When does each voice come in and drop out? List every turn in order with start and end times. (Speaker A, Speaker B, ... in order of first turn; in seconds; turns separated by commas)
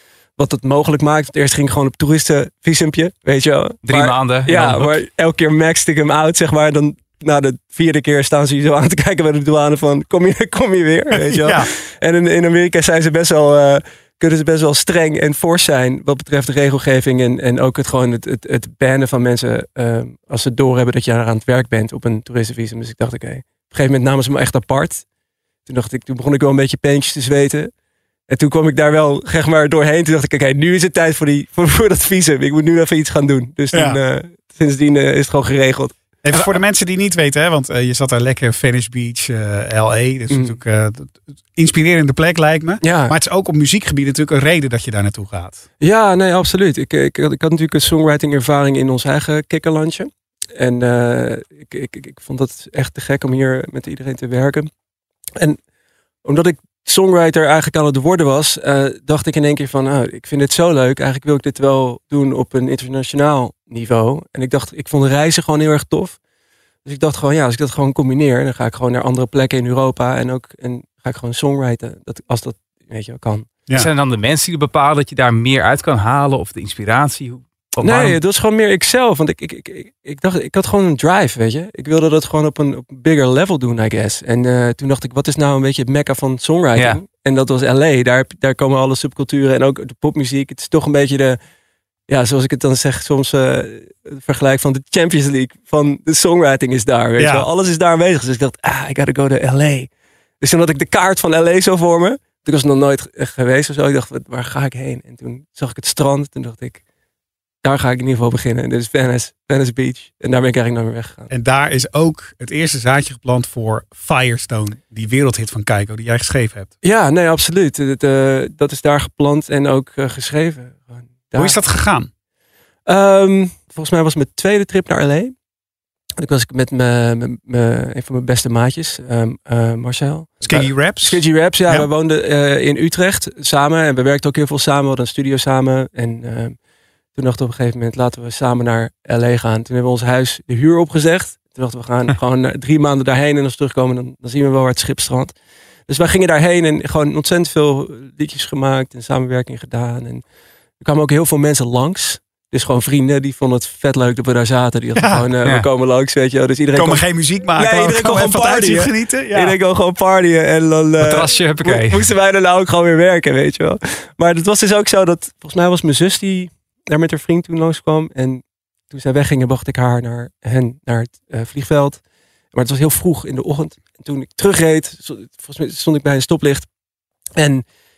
Speaker A: 0.4-25.0, Speaker B: 3.9-5.0, Speaker C: 11.2-11.7, Speaker A: 25.7-27.7, Speaker A: 28.3-36.0, Speaker C: 33.7-34.0, Speaker C: 36.2-45.6, Speaker A: 40.3-40.6, Speaker A: 42.8-43.1, Speaker A: 45.8-54.7, Speaker A: 56.2-66.2, Speaker A: 66.8-73.5, Speaker B: 73.7-78.2, Speaker A: 77.8-91.4, Speaker A: 92.1-99.9, Speaker C: 97.2-97.5, Speaker A: 100.4-106.8, Speaker A: 107.6-111.3, Speaker C: 111.3-116.7, Speaker A: 116.8-121.6, Speaker C: 121.4-122.1, Speaker A: 122.8-125.3, Speaker A: 126.2-136.6, Speaker C: 130.4-131.9, Speaker A: 137.2-145.3, Speaker A: 145.9-150.2, Speaker A: 150.8-172.0, Speaker C: 155.0-155.2, Speaker C: 156.8-159.6, Speaker B: 161.0-162.1, Speaker A: 172.5-176.7, Speaker A: 177.4-177.6